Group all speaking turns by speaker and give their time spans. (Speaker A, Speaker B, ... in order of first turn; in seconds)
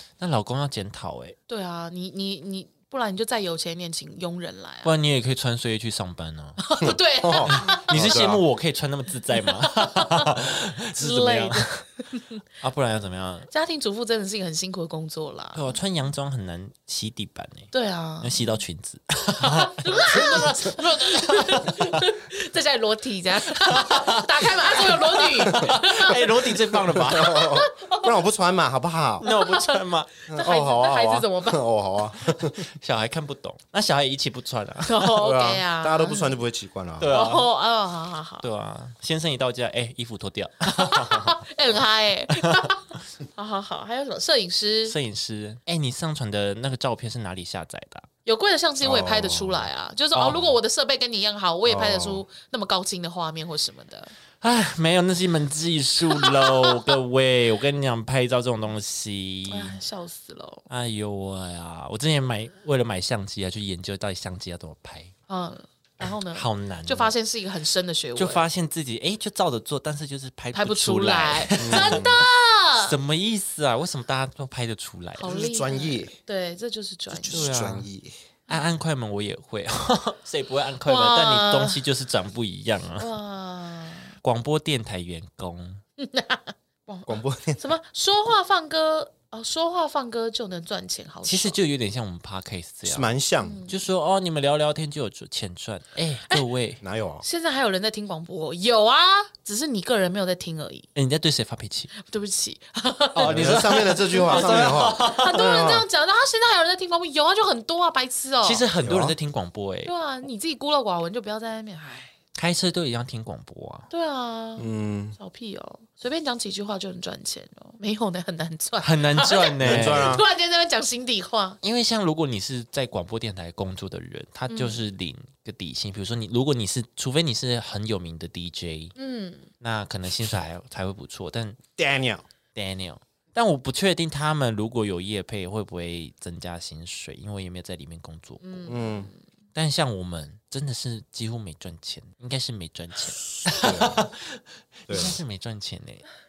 Speaker A: 0.2-1.4, 4.8-6.6, 7.4-11.8, 12.6-13.5, 15.5-22.1, 23.5-27.5, 29.2-30.1, 32.4-35.1, 37.0-37.5, 38.4-41.4, 42.4-42.7, 44.9-48.1, 50.1-50.5, 54.4-59.8, 60.7-65.1, 66.0-67.1, 68.2-72.2, 72.8-75.3, 77.3-77.9, 78.5-83.1, 84.2-85.8, 91.2-93.1, 93.7-96.8, 100.9-101.9, 103.1-105.7, 108.4-109.9, 112.3-113.9, 118.8-120.2, 121.6-128.9, 129.6-131.6, 132.5-138.8, 139.5-146.1
Speaker B: 1.5-4.9, 6.6-8.2, 9.4-12.4, 13.5-15.8, 17.7-18.6, 19.4-26.5, 27.1-28.1, 29.2-31.6, 34.9-36.4, 37.1-38.4, 40.6-45.0, 48.2-54.1, 56.1-56.8, 59.5-60.6, 65.3-68.5, 70.5-73.0, 75.2-77.5, 80.8-81.8, 83.0-84.2, 86.0-91.6, 93.4-93.7, 97.2-100.9, 101.9-108.6, 109.8-112.1, 113.9-121.6, 124.5-124.8, 128.9-129.5, 138.4-139.2
Speaker C: 6.8-8.4, 26.9-29.2, 30.3-32.6, 35.1-37.1, 48.8-49.7, 51.6-52.2, 71.6-72.2, 75.2-76.1, 77.1-78.1, 87.1-87.6, 92.9-93.6, 96.8-97.2, 103.2-105.8, 108.8-109.2, 114.6-115.2, 119.6-120.2, 131.8-132.2, 138.7-139.1, 143.4-144.1, 144.9-145.2